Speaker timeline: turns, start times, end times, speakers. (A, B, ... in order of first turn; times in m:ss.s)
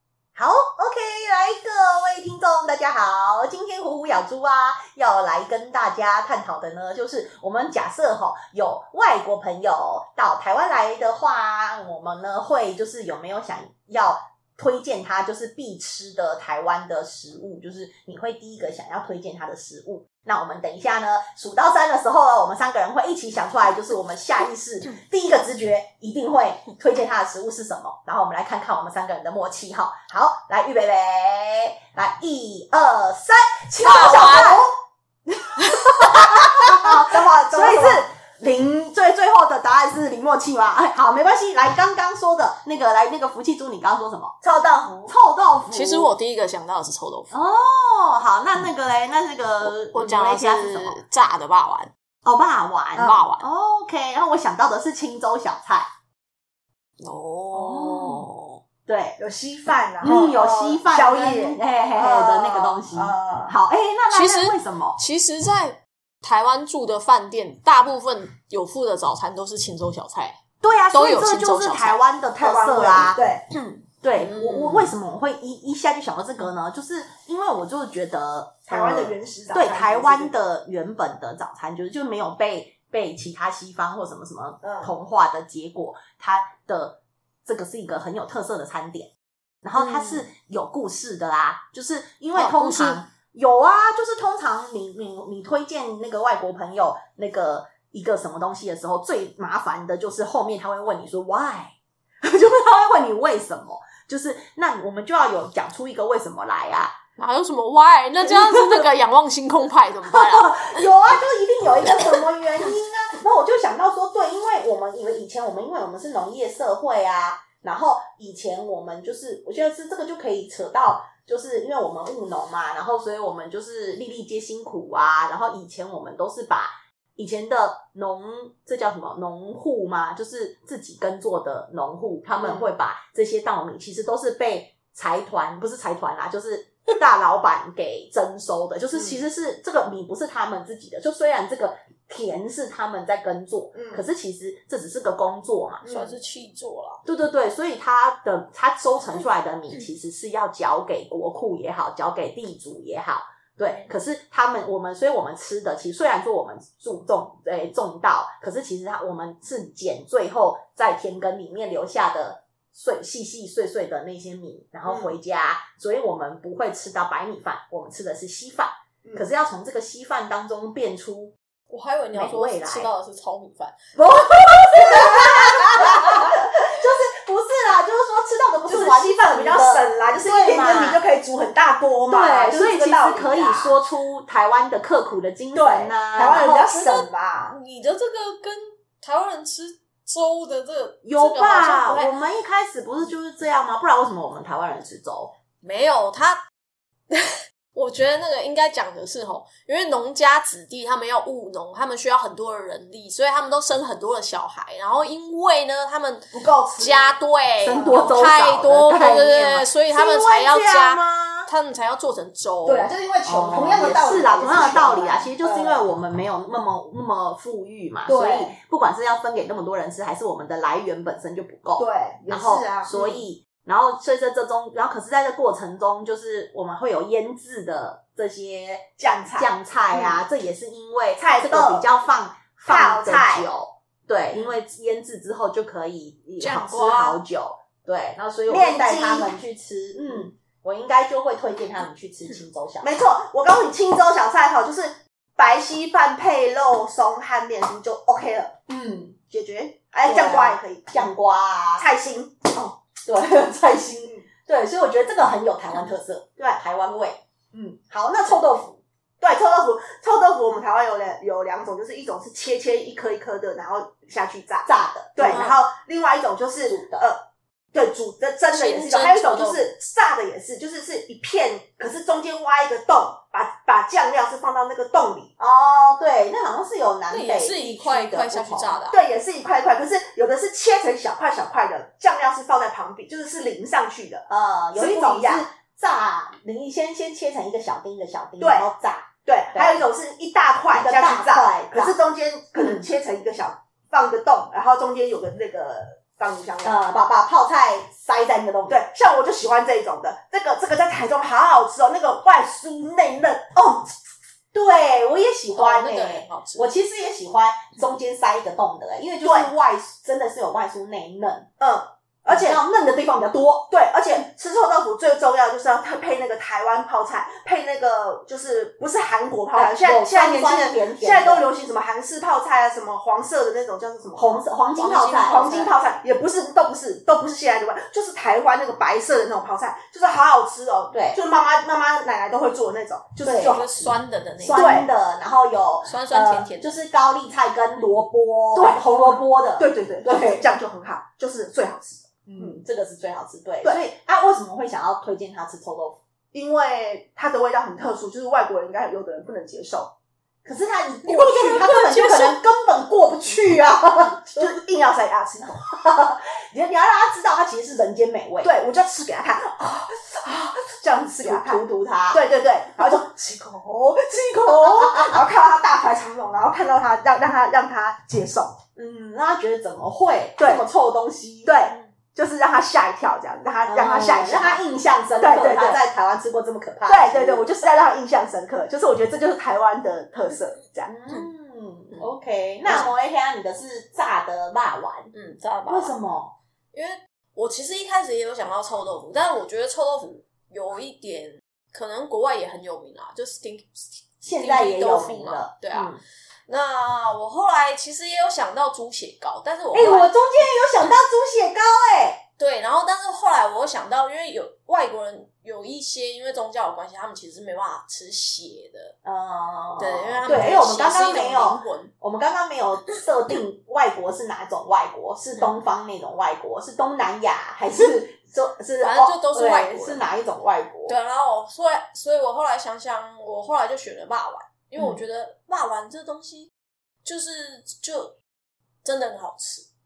0:00.4-0:34.7 A
0:33.8-0:34.6 B
0:34.1-0:34.6 C
0:35.6-0:36.4 B
0:36.0-0:44.4 A
0:36.6-0:38.0 C
0:44.4-0:45.1 C
0:45.0-0:46.1 A
0:45.7-0:47.3 B
0:47.3-0:51.0 A
0:49.9-0:51.9 B
0:52.2-0:55.9 A
0:53.0-0:53.4 B
0:57.0-0:58.3 B
0:57.5-0:58.3 A
0:58.9-0:59.2 A
0:59.2-1:03.6 C
1:00.0-1:05.0 A
1:04.1-1:10.4 B
1:10.6-1:13.2 A
1:10.9-1:12.0 B
1:12.4-1:13.4 C
1:13.5-1:14.9 B
1:14.0-1:29.1 A
1:18.7-1:20.3 C
1:24.6-1:24.9 C
1:29.6-1:47.0 A
1:29.8-1:30.2 B
1:32.3-1:33.0 B
1:47.2-1:50.9 B
1:48.2-1:48.8 A
1:50.1-2:25.8 A
1:51.8-1:52.2 B
2:12.3-2:12.8 C
2:23.8-2:24.0 C
2:25.8-2:26.2 C
2:25.8-2:27.0 B
2:27.0-2:51.3 A
2:33.6-2:33.9 B
2:44.9-2:45.1 C
2:51.7-2:53.8 B
2:52.1-2:52.9 A
2:54.0-3:01.0 A
2:54.8-2:56.3 C
2:58.7-3:03.8 C
3:02.1-3:06.7 A
3:05.5-3:07.6 C
3:06.2-3:12.1 B
3:11.0-3:15.3 A
3:15.6-3:16.4 B
3:17.1-3:32.9 B
3:26.3-3:27.2 C
3:27.6-3:31.5 A
3:27.7-3:28.2 C
3:32.7-3:35.8 C
3:33.2-4:03.0 A
3:38.0-3:38.6 C
3:41.8-3:43.2 C
3:49.0-3:50.2 C
3:51.2-3:51.9 C
3:52.7-3:53.5 C
3:56.4-3:57.2 B
3:58.5-3:59.3 C
4:00.0-4:00.3 C
4:02.8-4:08.6 C
4:08.7-4:09.2 A
4:09.3-4:11.1 C
4:10.0-4:11.9 A
4:11.8-4:12.5 C
4:12.5-4:18.8 A
4:19.2-4:35.3 C
4:24.6-4:25.6 A
4:26.6-4:27.0 A
4:28.5-4:29.7 B
4:35.4-4:38.8 A
4:37.1-4:39.0 B
4:38.9-4:45.5 C
4:44.3-4:49.8 A
4:48.4-4:48.7 C
4:49.2-4:56.8 C
4:50.7-4:52.0 A
4:52.6-4:52.8 A
4:56.6-4:58.8 A
4:58.7-5:03.9 C
5:04.5-5:11.5 A
5:05.5-5:06.7 B
5:09.2-5:09.5 C
5:11.6-5:12.6 C
5:12.3-5:13.7 A
5:13.7-5:24.4 C
5:19.5-5:21.5 A
5:24.2-5:25.6 A
5:24.8-5:25.8 B
5:25.2-5:33.6 C
5:30.9-5:31.2 A
5:33.2-5:40.4 A
5:33.4-5:34.8 B
5:34.5-5:34.9 C
5:35.8-5:36.8 B
5:38.5-5:42.6 C
5:42.2-5:46.0 A
5:46.3-5:49.9 C
5:50.4-5:54.6 A
5:51.0-5:52.1 C
5:52.0-5:52.4 B
5:54.1-5:55.7 C
5:55.5-5:58.5 A
5:58.4-6:08.6 C
6:01.2-6:02.2 A
6:04.6-6:05.2 A
6:08.8-6:11.7 A
6:10.4-6:10.7 C
6:11.5-6:14.6 C
6:13.6-6:17.5 A
6:15.2-6:15.8 C
6:16.9-6:20.9 C
6:20.9-6:25.1 A
6:22.6-6:22.9 C
6:25.1-6:26.0 B
6:25.7-6:26.4 A
6:26.7-6:40.1 B
6:34.2-6:36.0 A
6:39.7-6:42.2 A
6:42.4-6:48.9 B
6:49.0-7:00.9 A
6:49.8-6:51.9 B
6:58.8-7:00.0 B
7:00.9-7:06.5 B
7:07.0-7:08.2 B
7:08.8-7:09.6 B